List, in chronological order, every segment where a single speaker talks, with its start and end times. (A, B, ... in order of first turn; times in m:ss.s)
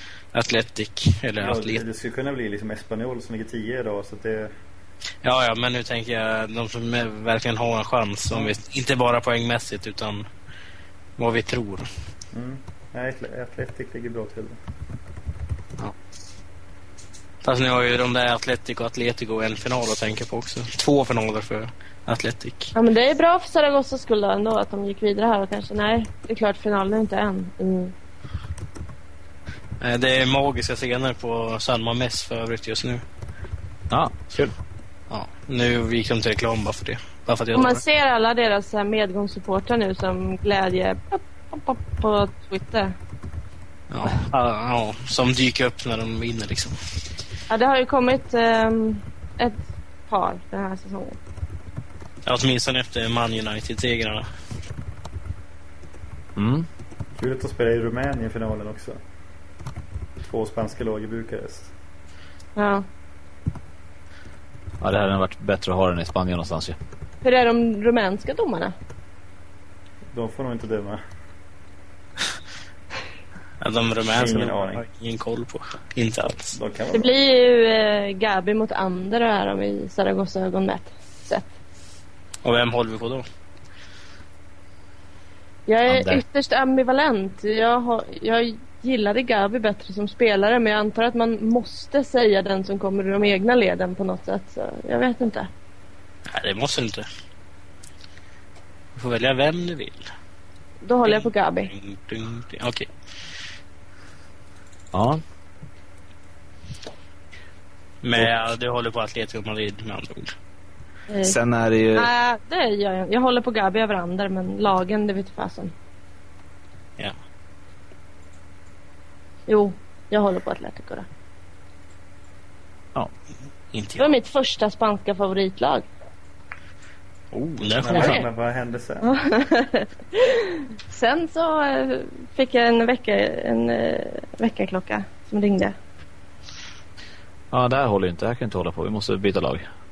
0:00.3-0:01.8 A
0:01.4-0:04.5 B
0:05.2-0:10.2 A
0:11.2-0:11.9 A
0:12.3-0:14.6 B
0:17.4-0:22.7 A
0:22.7-0:27.9 C
0:29.8-0:33.0 A
0:33.9-0:34.5 D
0:35.1-0:37.8 A
0:37.5-0:43.0 C
0:43.9-0:46.8 A
0:47.5-0:51.2 C
0:52.2-0:54.3 A
0:56.4-0:56.7 D
0:57.2-0:59.0 B
1:00.3-1:01.7 B
1:02.6-1:02.8 C
1:04.8-1:06.8 D
1:07.2-1:08.7 C
1:10.1-1:11.0 B
1:13.6-1:16.6 A
1:14.2-1:14.8 B
1:16.5-1:17.1 B
1:16.9-1:21.5 C
1:22.4-1:23.2 A
1:25.7-1:35.5 C
1:25.9-1:26.2 D
1:36.3-1:37.0 A
1:38.9-1:40.0 A
1:40.8-1:41.7 C
1:41.0-1:42.9 A
1:44.9-1:45.2 D
1:48.0-1:50.3 A
1:51.1-1:51.3 C
1:51.2-1:52.1 D
1:51.9-1:55.7 C
1:59.5-2:01.1 C
2:03.7-2:04.1 A
2:04.0-2:05.8 C
2:07.3-2:08.2 A
2:07.6-2:09.1 B
2:09.0-2:15.8 C
2:17.5-2:19.6 D